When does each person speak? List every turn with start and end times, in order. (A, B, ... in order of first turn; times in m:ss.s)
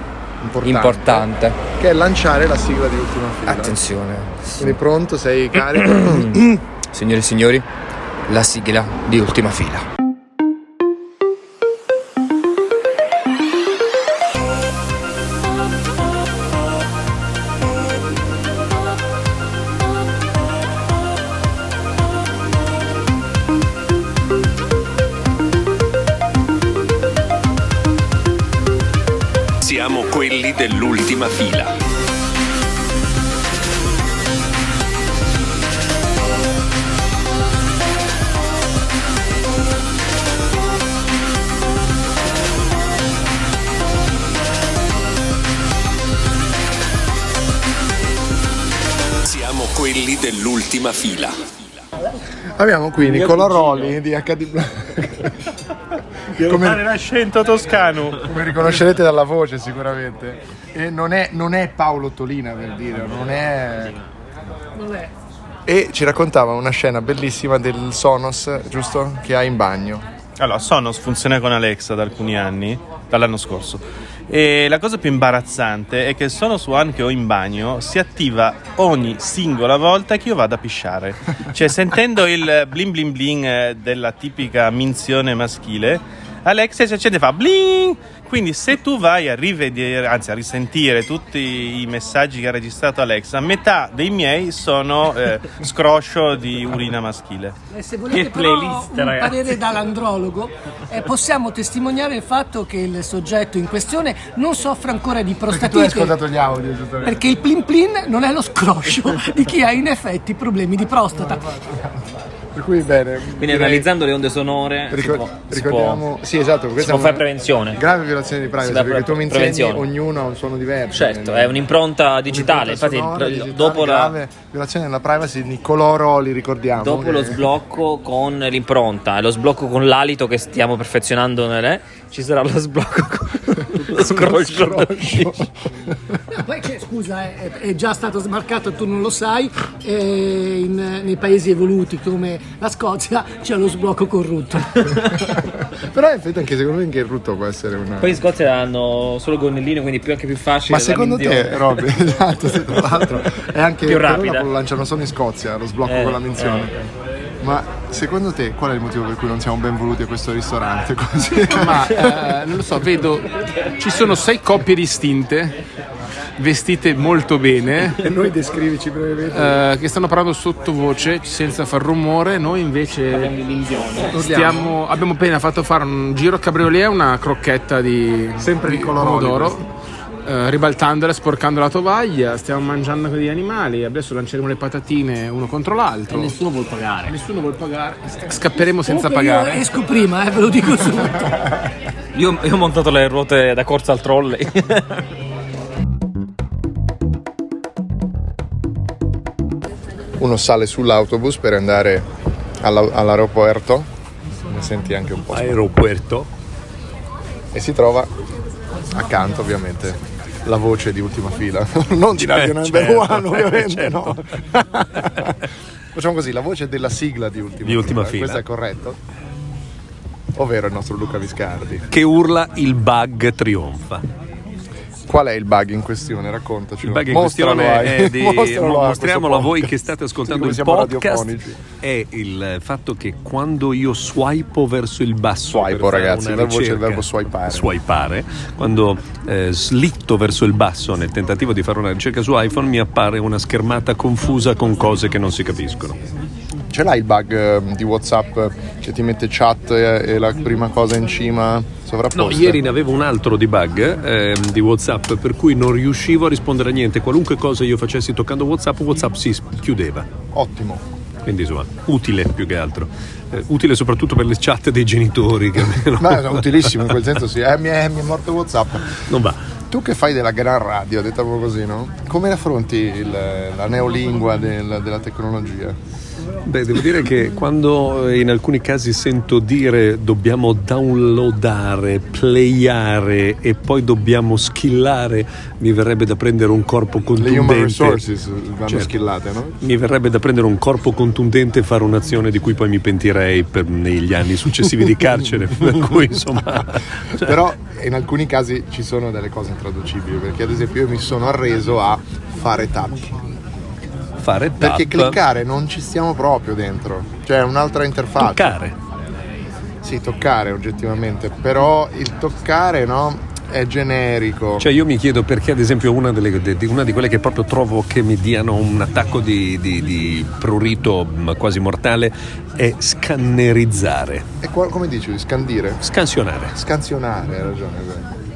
0:00.4-0:03.9 A
0:00.6-0:01.6 B
0:03.5-0:04.8 B
0:04.6-0:06.5 A
0:05.7-0:07.7 B
0:08.3-0:09.9 B
0:29.6-0:31.7 C
0:49.2-0:51.4 C
0:52.5-0:55.4 A
0:56.4-0:56.8 A
0:56.4-0:58.2 D
0:58.2-1:04.0 A
1:05.7-1:10.1 A
1:10.4-1:37.5 D
1:37.7-1:46.2 E
1:38.1-1:39.6 F
1:45.5-1:47.3 A
1:47.0-1:51.6 E
1:51.2-1:51.9 A
1:52.5-1:53.9 A
1:53.4-1:56.0 F
1:54.9-2:01.7 A
1:56.8-1:57.8 F
1:58.6-1:59.8 F
2:00.9-2:04.2 F
2:02.3-2:07.5 A
2:06.8-2:15.3 F
2:13.9-2:16.0 A
2:14.3-2:14.7 C
2:16.3-2:25.1 E
2:25.5-2:28.2 A
2:28.0-2:31.8 F
2:30.7-2:36.8 A
2:33.8-2:34.5 F
2:35.9-2:36.7 F
2:37.4-2:42.3 A
2:41.5-2:45.6 G
2:46.4-2:48.0 G
2:48.0-2:49.6 A
2:49.3-2:59.6 G
2:53.1-2:54.4 F
2:54.1-2:54.6 A
2:58.4-2:59.6 A
3:00.3-3:06.4 G
3:06.2-3:07.1 F
3:07.1-3:09.6 G
3:08.9-3:11.6 E
3:12.1-3:15.0 F
3:20.2-3:22.1 A
3:22.6-3:23.9 A
3:24.4-3:25.7 A
3:25.3-3:26.3 C
3:27.5-3:28.1 A
3:28.9-3:35.4 A
3:32.2-3:34.2 C
3:35.9-3:39.0 A
3:37.6-3:38.4 C
3:40.4-3:41.8 A
3:41.9-3:44.1 C
3:45.1-3:51.6 A
3:46.8-3:51.3 C
3:51.8-4:06.0 C
3:55.5-3:57.7 A
4:06.7-4:12.6 A
4:12.2-4:20.1 C
4:20.3-4:20.9 A
4:21.2-4:26.4 C
4:25.9-4:29.0 A
4:29.1-4:29.4 C
4:29.7-4:35.8 A
4:36.4-4:48.0 C
4:47.2-4:49.6 A
4:49.6-4:57.4 C
4:55.8-4:56.3 A
4:57.1-5:03.4 A
5:04.2-5:05.2 C
5:04.6-5:08.6 A
5:08.2-5:08.8 C
5:09.8-5:14.7 A
5:14.6-5:24.3 C
5:24.4-5:25.8 A
5:25.8-5:26.6 C
5:26.6-5:28.1 A